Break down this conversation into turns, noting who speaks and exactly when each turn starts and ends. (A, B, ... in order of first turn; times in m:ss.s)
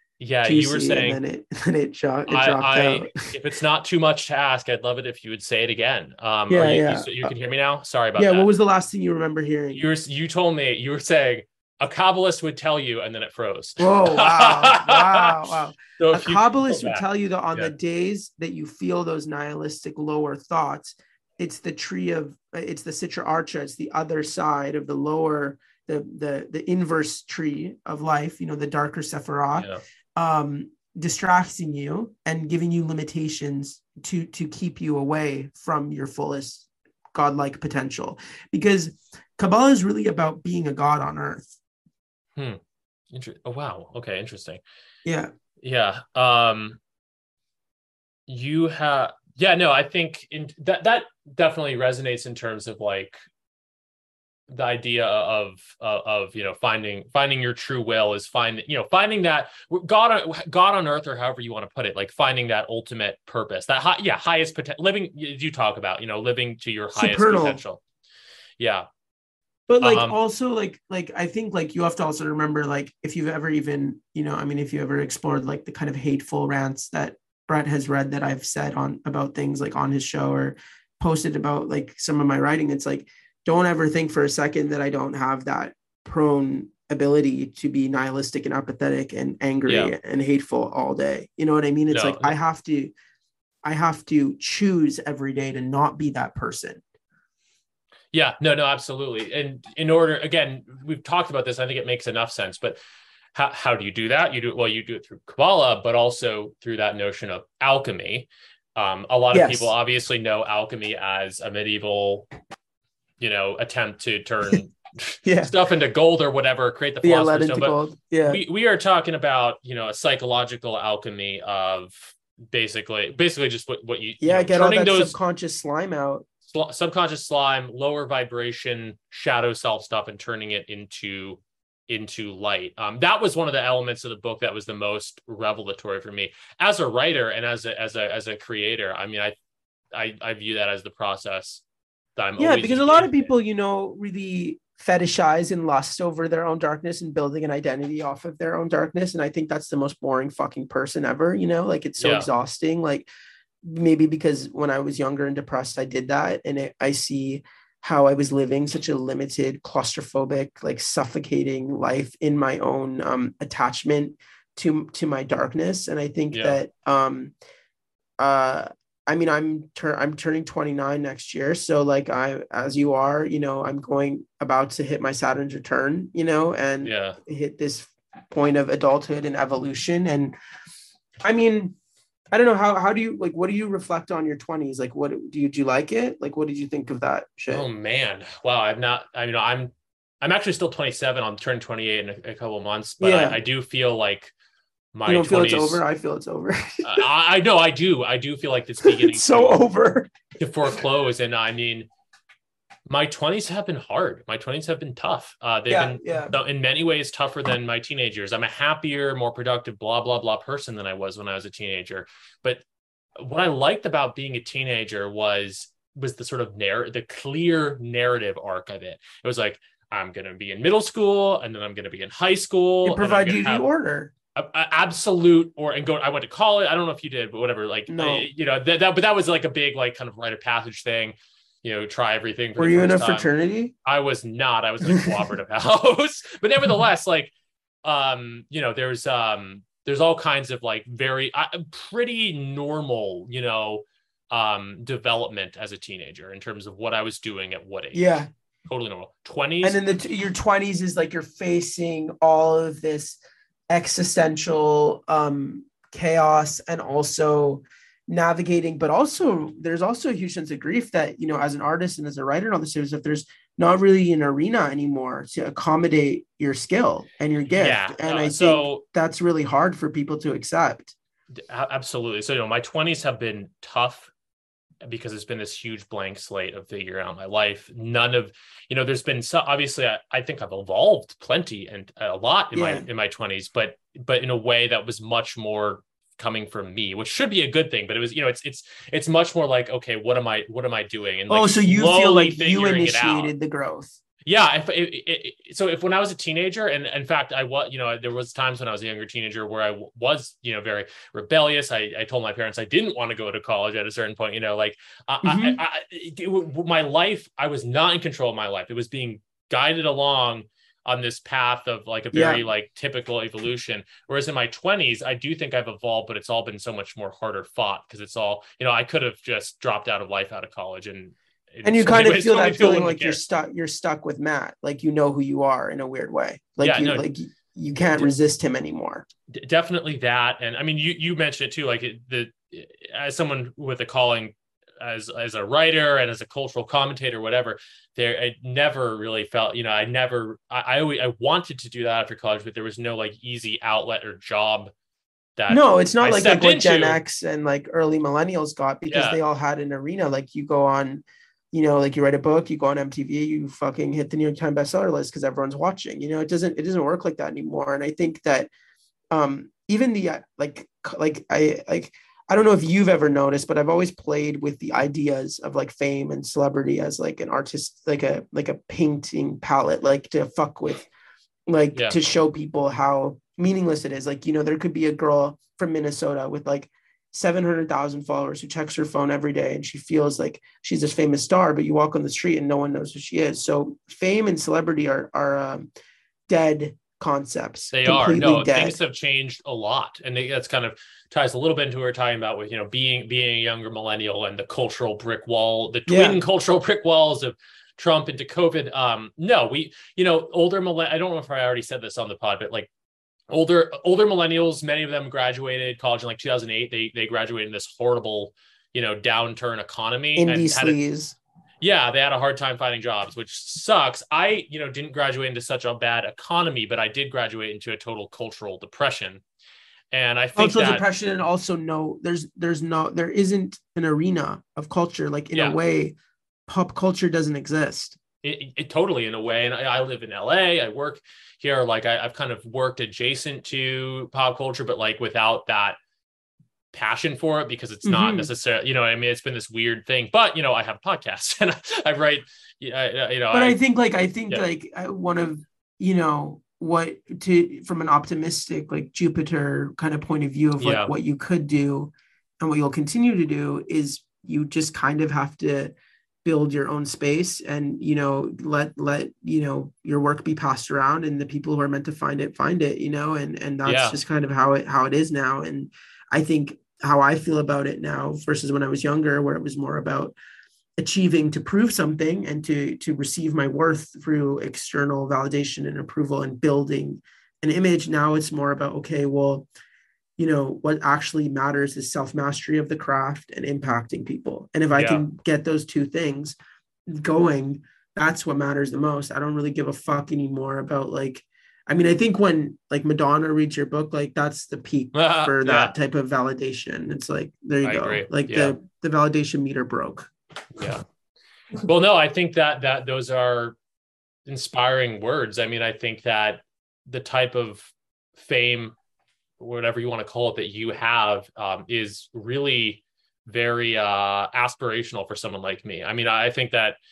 0:00.2-0:01.2 A
0:00.4-0:03.2 B
0:02.3-0:08.5 A
0:06.5-0:07.3 B
0:08.2-0:09.8 B
0:09.7-0:17.7 A
0:13.8-0:41.5 B
0:29.5-0:29.8 A
0:43.1-0:44.6 A
0:45.0-0:45.3 B
0:45.6-0:46.8 A
0:48.3-0:53.2 A
0:54.5-1:07.8 A
1:07.0-1:07.6 B
1:08.6-1:08.9 A
1:09.7-1:32.9 B
1:09.8-1:10.2 A
1:29.7-1:29.9 A
1:31.9-1:32.3 A
1:33.6-1:36.8 B
1:38.1-1:42.8 A
1:43.3-1:52.3 A
1:49.3-1:49.7 B
1:53.2-2:05.2 A
1:55.2-1:55.5 B
1:57.0-1:58.4 B
2:04.2-2:06.3 B
2:06.5-2:19.4 A
2:19.9-2:21.6 A
2:22.2-2:23.3 A
2:22.4-2:33.1 B
2:32.0-2:32.3 A
2:33.6-2:47.3 B
2:46.3-2:46.6 A
2:48.2-3:00.4 B
2:56.8-2:57.2 A
3:01.2-3:01.8 B
3:02.3-3:07.7 B
3:07.5-3:14.3 A
3:13.0-3:13.4 B
3:14.9-3:15.8 A
3:15.1-3:16.9 B
3:16.8-3:19.6 A
3:18.8-3:20.1 B
3:20.4-3:21.9 A
3:22.9-3:32.6 A
3:25.7-3:26.3 B
3:33.2-3:43.7 A
3:42.8-3:44.1 B
3:44.4-3:53.3 A
3:47.9-3:48.3 B
3:52.6-3:53.7 B
3:53.8-3:57.3 A
3:54.9-3:55.1 B
3:57.8-4:09.8 A
4:07.9-4:08.3 B
4:09.6-4:31.0 B
4:27.5-4:28.8 A
4:31.4-4:34.1 A
4:34.8-4:53.3 A
4:42.5-4:42.9 B
4:51.3-4:54.0 B
4:54.3-5:23.2 A
5:05.2-5:05.6 B
5:12.1-5:12.5 B
5:21.6-5:29.1 B
5:26.6-5:27.0 A
5:29.3-5:44.7 A
5:45.4-5:47.0 A
5:45.5-5:58.5 B
5:48.9-5:49.2 A
5:59.1-6:10.9 B
6:11.5-6:25.7 B
6:26.3-6:28.8 B
6:27.7-6:42.7 A
6:35.9-6:36.2 B
6:43.3-6:50.8 A
6:50.2-6:51.2 B
6:51.6-6:59.2 A
6:59.9-7:00.8 A
7:00.4-7:08.0 B
7:08.2-7:15.8 A
7:16.7-7:23.6 A
7:17.8-7:18.3 B
7:23.3-7:35.7 B
7:30.6-7:30.9 A
7:36.2-7:50.2 B
7:43.6-7:44.0 A
7:50.8-7:59.5 B
8:00.2-8:06.4 B
8:04.7-8:05.0 A
8:06.9-8:20.7 B
8:15.0-8:15.7 A
8:17.6-8:18.6 A
8:20.6-8:20.8 A
8:21.6-8:23.6 A
8:24.3-8:28.8 A
8:29.4-8:36.8 A